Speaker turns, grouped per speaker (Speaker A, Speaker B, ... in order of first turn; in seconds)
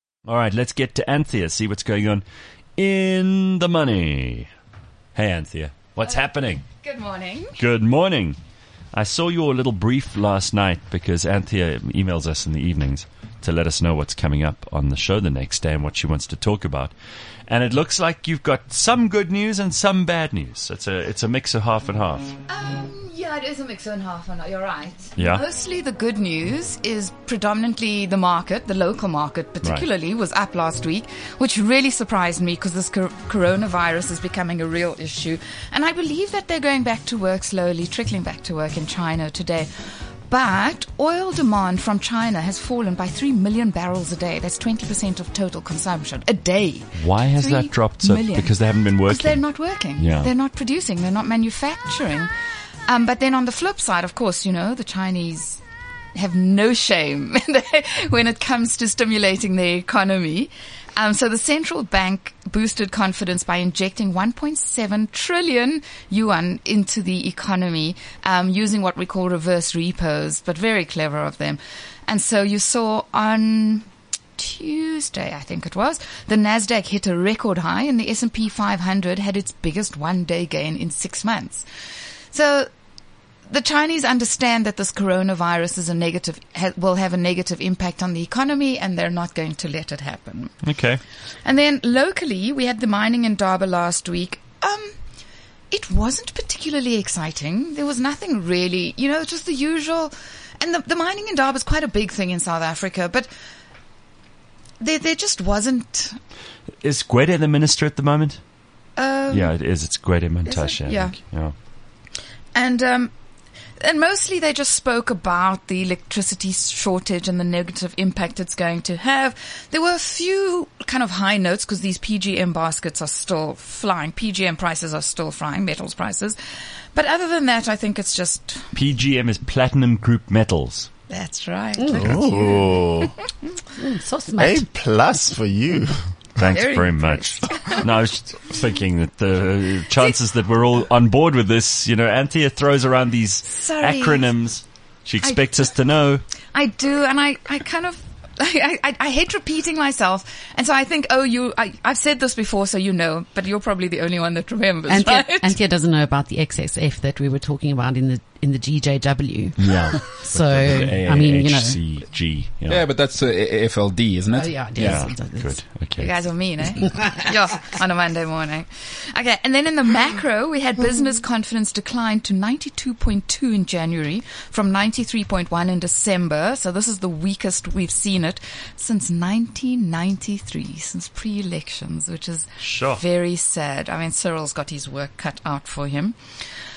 Speaker A: 0.2-2.2, 2.8-4.5, 5.2-6.6, 7.6-8.4, 8.9-16.9, 17.5-22.4, 25.2-25.4, 47.0-50.3, 90.6-91.0, 106.8-108.4, 109.3-111.5, 128.7-130.9, 131.9-132.2, 136.3-146.2, 159.6-162.8, 164.8-166.3, 182.6-183.0
Speaker B: 6.0-7.6, 22.5-39.7, 40.3-52.3, 52.9-55.6, 56.1-81.7, 82.3-82.7, 83.5-90.8, 91.4-95.0, 95.7-103.3, 104.8-106.2, 109.0-109.6, 110.5-111.5, 112.5-113.1, 113.8-126.4, 126.9-128.7, 131.1-133.2, 136.4-137.9, 143.5-144.4, 145.2-145.7, 146.5-155.6, 166.0-186.2
Speaker C: 131.8-132.4, 133.8-134.7, 154.9-161.9, 164.3-167.6
Speaker D: 132.0-133.1, 134.4-136.1
Speaker E: 162.7-165.1